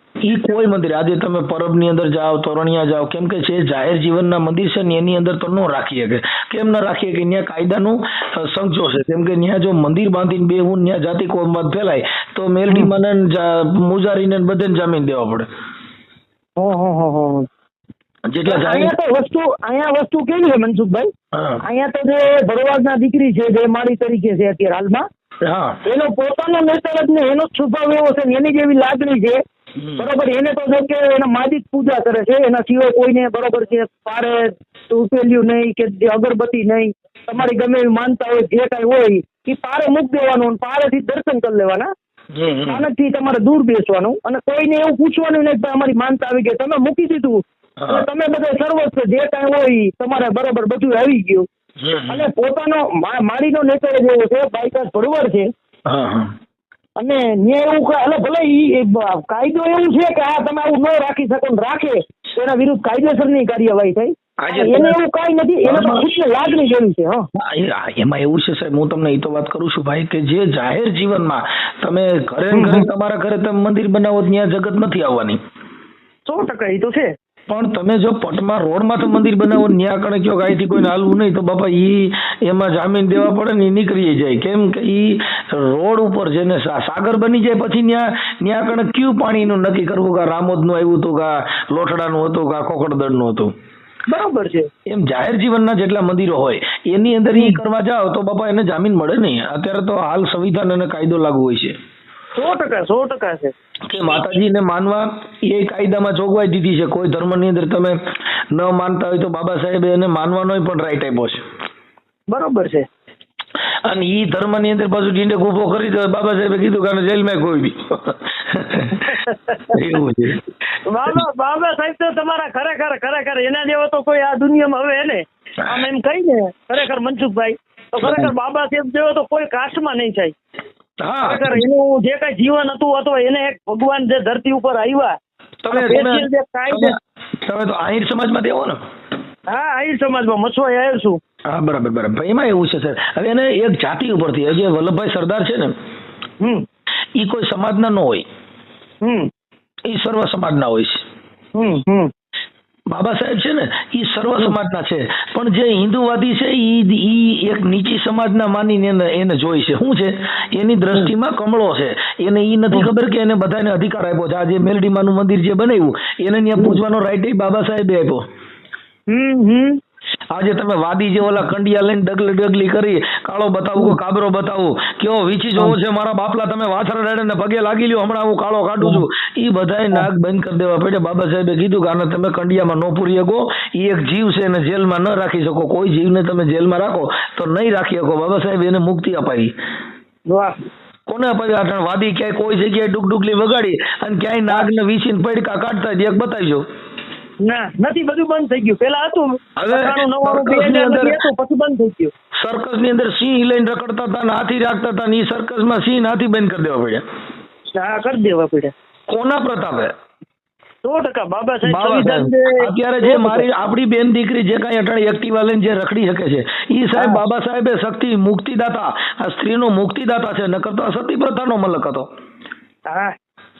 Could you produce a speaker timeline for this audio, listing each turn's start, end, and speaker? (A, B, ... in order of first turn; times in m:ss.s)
0:00.2-0:15.4 A
0:16.6-0:17.4 B
0:18.3-0:18.9 A
0:18.4-0:21.1 B
0:21.3-0:21.6 A
0:21.6-0:25.0 B
0:25.4-0:25.8 A
0:25.8-0:29.4 B
0:29.8-0:30.1 A
0:30.0-0:41.9 B
0:42.3-0:42.8 A
0:42.6-0:51.4 B
0:47.8-0:48.1 A
0:51.8-0:52.3 A
0:52.1-0:55.5 B
0:55.8-0:56.3 A
0:57.0-1:07.2 B
1:04.4-1:05.0 A
1:05.6-1:06.1 A
1:07.4-1:15.4 A
1:12.5-1:12.9 B
1:16.2-1:17.1 B
1:17.5-1:33.5 A
1:34.1-1:34.7 B
1:34.9-1:41.7 A
1:37.3-1:37.6 B
1:42.4-1:43.5 B
1:43.9-1:48.0 A
1:48.5-1:51.4 A
1:52.3-1:52.8 B
1:53.8-1:59.1 A
1:59.0-1:59.8 B
1:59.7-2:00.4 A
2:00.8-2:10.3 B
2:08.0-2:08.3 A
2:11.0-2:11.6 A
2:11.2-2:15.1 B
2:15.6-2:18.8 A
2:15.7-2:17.0 B
2:19.5-2:21.2 B
2:21.5-2:25.7 A
2:27.2-2:28.2 A
2:29.0-2:29.3 B
2:29.9-2:31.0 A
2:31.6-2:32.1 B
2:32.9-2:48.2 A
2:49.1-2:49.8 B
2:50.3-3:09.5 A
3:10.3-3:10.5 B
3:11.1-3:16.6 A
3:17.4-3:22.1 B
3:19.6-3:21.2 A
3:22.4-3:27.0 A
3:27.7-3:28.7 B
3:29.1-3:29.9 A
3:30.8-3:33.5 B
3:31.6-3:42.1 A
3:37.0-3:37.2 B